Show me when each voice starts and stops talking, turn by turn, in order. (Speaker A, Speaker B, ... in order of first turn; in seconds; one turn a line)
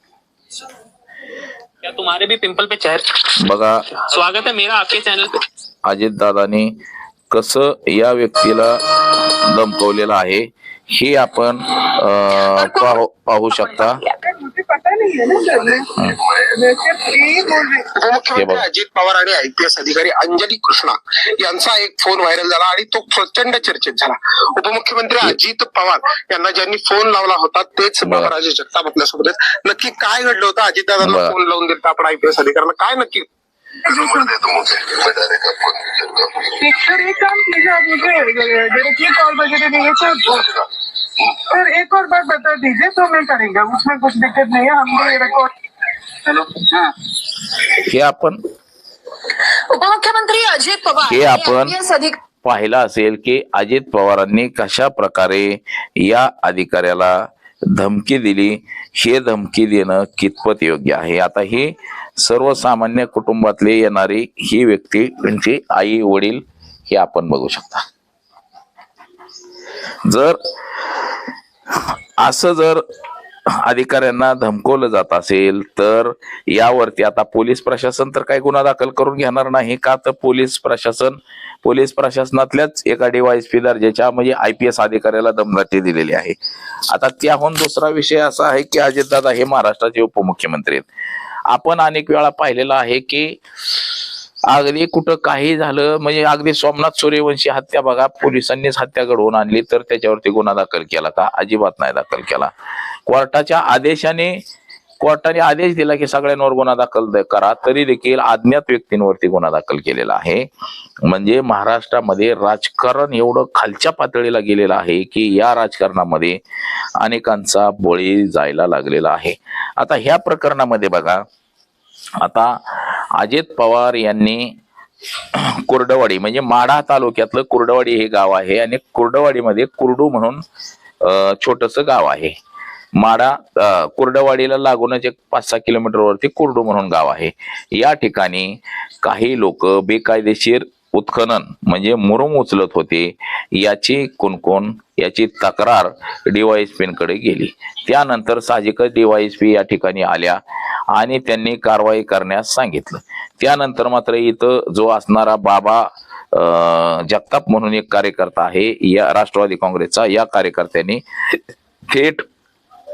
Speaker A: 1.8-5.4
Speaker B: 3.4-4.0
Speaker B: 5.8-6.7
Speaker B: 7.3-14.0
Speaker C: 14.0-17.9
Speaker B: 15.9-16.2
Speaker D: 17.8-33.2
Speaker B: 18.3-18.6
Speaker B: 28.1-28.3
Speaker B: 31.0-31.3
Speaker C: 33.9-34.4
Speaker D: 33.9-36.5
Speaker C: 36.5-40.6
Speaker C: 41.4-45.5
Speaker C: 46.2-46.8
Speaker B: 47.6-48.4
Speaker E: 49.7-51.1
Speaker B: 51.0-51.8
Speaker E: 51.7-52.1
Speaker B: 52.4-57.2
Speaker B: 57.7-67.8
Speaker B: 70.0-70.4
Speaker B: 72.2-72.8
Speaker B: 73.6-86.3
Speaker B: 86.9-90.8
Speaker B: 91.5-93.4
Speaker B: 94.5-102.5
Speaker B: 103.1-104.4
Speaker B: 105.0-110.5
Speaker B: 111.0-116.4
Speaker B: 117.0-121.2
Speaker B: 122.2-124.5
Speaker B: 125.3-130.4
Speaker B: 131.0-132.3
Speaker B: 133.0-162.2